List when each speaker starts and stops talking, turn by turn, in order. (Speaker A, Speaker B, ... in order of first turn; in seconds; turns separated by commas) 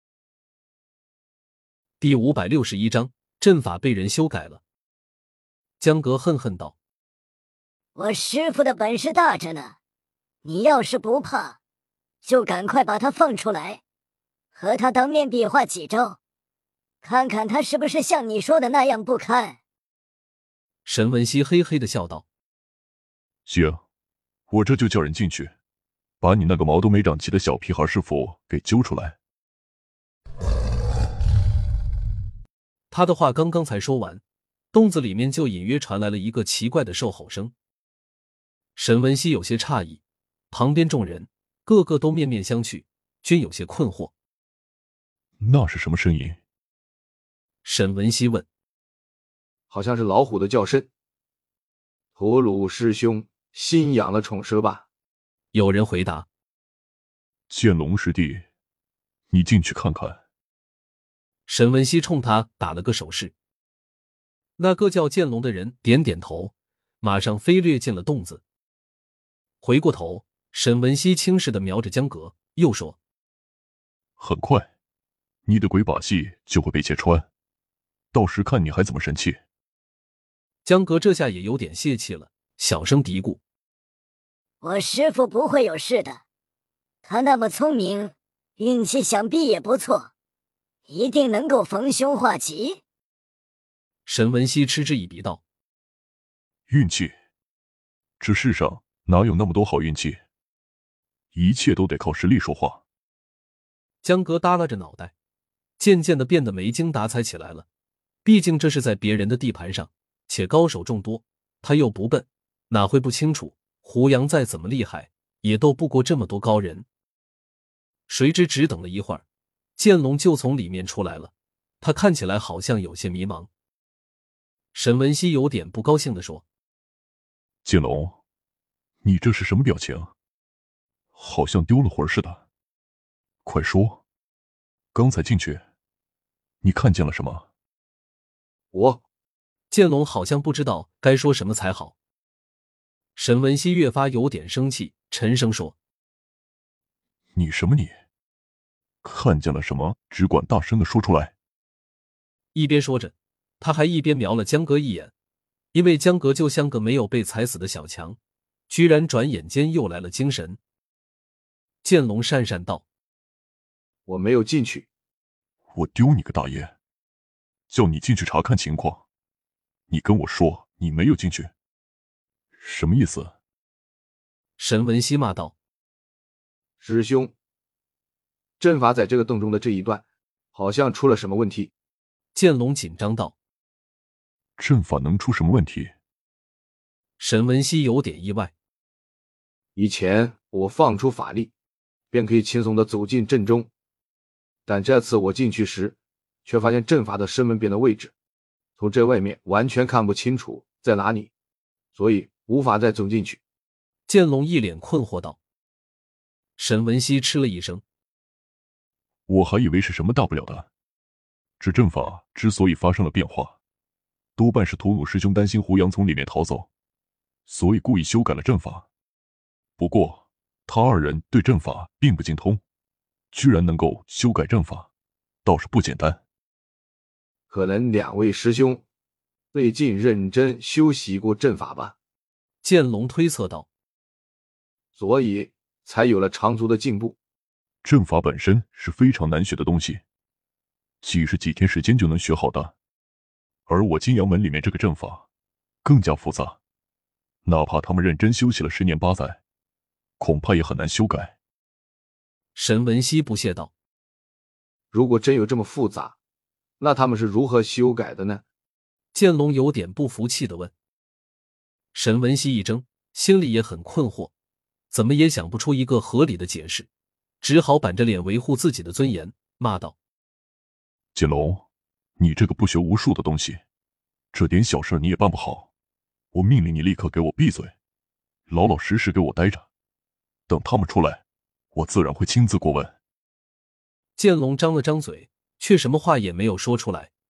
Speaker A: 2.0-4.6, Speaker A: 5.8-6.7, Speaker B: 7.9-9.8, Speaker B: 10.4-11.6, Speaker B: 12.2-13.8, Speaker B: 14.5-16.2, Speaker B: 17.0-19.6, Speaker A: 20.8-22.2, Speaker C: 23.4-23.8, Speaker C: 24.5-25.5, Speaker C: 26.2-29.2, Speaker A: 32.9-34.2, Speaker A: 34.7-37.5, Speaker A: 38.8-44.1, Speaker C: 45.4-46.4, Speaker A: 47.6-48.5, Speaker D: 49.7-50.9, Speaker D: 52.1-54.8, Speaker A: 55.5-56.3, Speaker C: 57.5-58.4, Speaker C: 59.3-60.2, Speaker A: 61.5-63.3, Speaker A: 64.6-68.4, Speaker A: 69.6-73.0, Speaker C: 74.2-74.7, Speaker C: 75.5-77.3, Speaker C: 78.1-79.4, Speaker A: 80.6-83.4, Speaker B: 84.6-86.2, Speaker B: 87.0-90.1, Speaker B: 90.9-92.8, Speaker A: 94.0-95.4, Speaker C: 96.7-97.1, Speaker C: 98.2-100.2, Speaker C: 101.3-102.8, Speaker A: 104.0-105.1, Speaker A: 105.8-107.7, Speaker A: 108.2-116.8, Speaker A: 118.1-119.2, Speaker A: 119.8-123.5, Speaker A: 124.7-126.4, Speaker C: 127.6-128.2, Speaker C: 129.0-130.1, Speaker C: 131.1-132.4, Speaker C: 133.4-134.0, Speaker C: 134.9-135.6, Speaker C: 136.6-137.5, Speaker D: 138.7-139.0, Speaker A: 139.7-141.9, Speaker A: 143.2-145.8, Speaker C: 147.3-148.0, Speaker C: 149.0-151.3, Speaker A: 152.5-155.1, Speaker A: 155.7-158.2, Speaker A: 158.7-160.6, Speaker A: 161.8-162.8, Speaker D: 164.1-164.9, Speaker C: 165.7-166.7, Speaker C: 167.7-169.0, Speaker C: 169.9-171.5, Speaker C: 172.6-173.3, Speaker A: 174.6-175.5, Speaker D: 176.8-177.3, Speaker D: 178.6-180.0, Speaker D: 180.5-181.7, Speaker A: 182.3-183.3, Speaker C: 184.6-185.9, Speaker A: 187.2-188.5, Speaker D: 189.8-191.5, Speaker D: 192.1-193.7, Speaker D: 194.7-198.1, Speaker D: 198.8-201.3, Speaker D: 201.9-203.4, Speaker A: 204.1-205.4, Speaker A: 206.6-207.8, Speaker C: 209.3-210.7, Speaker C: 211.6-213.6, Speaker C: 214.4-216.7, Speaker C: 217.5-218.9, Speaker C: 219.8-222.6, Speaker C: 223.3-224.9, Speaker C: 225.4-226.2, Speaker D: 227.5-228.8, Speaker D: 229.5-231.9, Speaker A: 232.6-233.7, Speaker D: 234.9-237.2, Speaker C: 237.8-240.0, Speaker C: 241.0-242.7, Speaker C: 243.7-245.2, Speaker C: 245.8-246.6, Speaker C: 247.4-249.4, Speaker C: 250.2-251.3, Speaker A: 252.5-253.7, Speaker D: 254.9-256.1, Speaker D: 256.8-258.4, Speaker A: 259.1-260.7, Speaker A: 261.9-264.3, Speaker A: 264.9-266.9, Speaker A: 267.4-269.9, Speaker C: 271.1-271.6, Speaker C: 272.2-273.6, Speaker C: 274.3-275.7, Speaker C: 276.3-277.7, Speaker C: 278.5-279.7, Speaker C: 280.5-282.9, Speaker A: 284.2-287.1